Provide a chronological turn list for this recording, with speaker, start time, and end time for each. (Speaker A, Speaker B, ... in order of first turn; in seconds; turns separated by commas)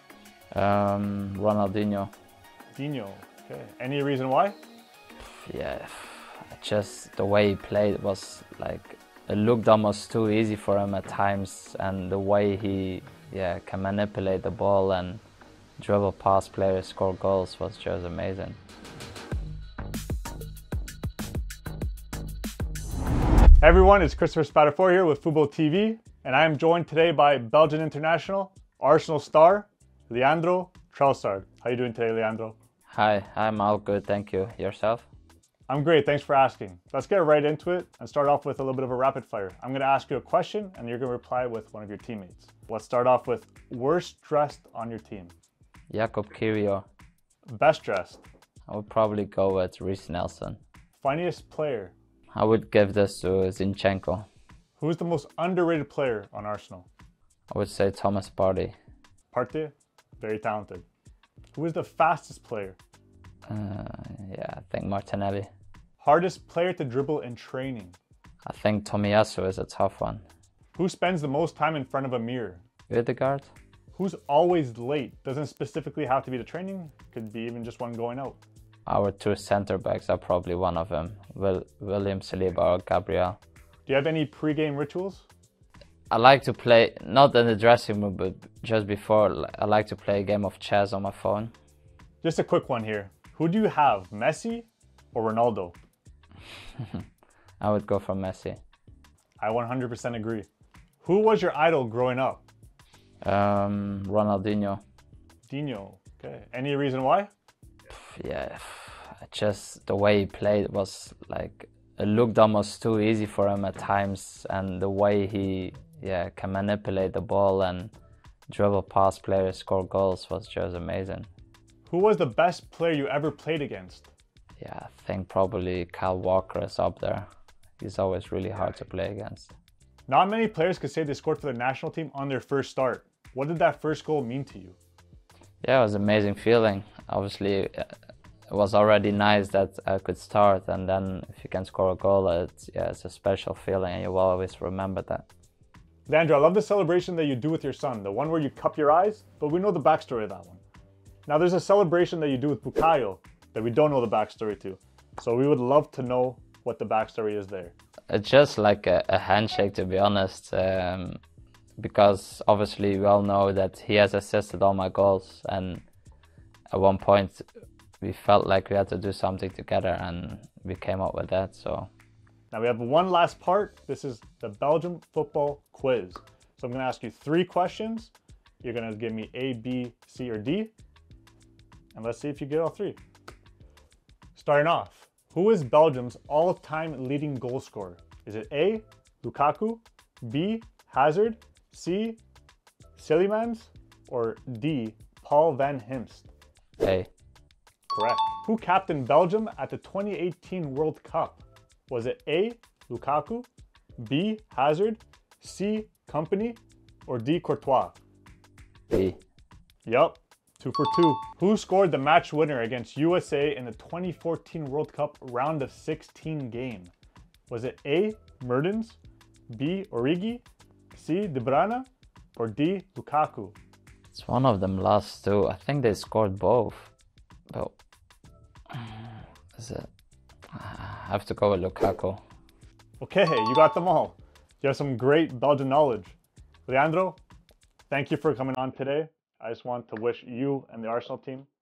Speaker A: 0.5-2.1, Speaker B: 2.7-4.6, Speaker A: 5.2-15.2, Speaker A: 15.8-18.6, Speaker B: 23.6-32.6, Speaker A: 32.9-35.1, Speaker B: 35.7-45.3, Speaker A: 45.9-46.9, Speaker B: 47.5-48.2, Speaker A: 48.7-50.6, Speaker B: 51.0-51.9, Speaker A: 52.3-54.3, Speaker B: 54.8-56.9, Speaker A: 57.5-58.7, Speaker B: 59.3-60.8, Speaker B: 61.5-62.8, Speaker A: 63.5-65.5, Speaker B: 66.0-68.0, Speaker A: 68.5-70.2, Speaker B: 70.8-72.6, Speaker A: 72.9-73.5, Speaker B: 73.9-78.4, Speaker A: 78.8-83.4, Speaker B: 83.9-85.3, Speaker A: 86.1-91.5, Speaker B: 92.2-95.8, Speaker A: 96.8-97.0, Speaker A: 97.6-98.6, Speaker B: 99.4-100.5, Speaker B: 101.0-102.4, Speaker A: 103.2-104.8, Speaker B: 105.5-107.3, Speaker A: 107.9-117.9, Speaker A: 118.5-121.3, Speaker B: 121.9-124.1, Speaker A: 124.6-127.2, Speaker A: 127.8-129.5, Speaker B: 130.1-134.8, Speaker A: 135.6-137.9, Speaker A: 138.5-145.2, Speaker B: 146.1-150.6, Speaker B: 151.3-157.7, Speaker A: 158.1-161.2, Speaker A: 161.8-165.8, Speaker A: 166.7-167.4, Speaker A: 168.0-171.9, Speaker B: 172.5-180.7, Speaker B: 181.9-183.0, Speaker B: 184.3-192.2, Speaker B: 192.9-196.3, Speaker A: 196.8-197.1, Speaker B: 197.9-203.5, Speaker B: 204.0-208.0, Speaker A: 208.9-209.2, Speaker B: 209.8-216.9, Speaker B: 217.5-219.0, Speaker B: 219.5-220.4, Speaker B: 220.9-223.6, Speaker A: 224.1-226.9, Speaker A: 227.5-227.8, Speaker A: 228.7-229.9, Speaker A: 230.5-232.2, Speaker B: 233.0-236.2, Speaker B: 236.7-237.2, Speaker B: 237.9-241.5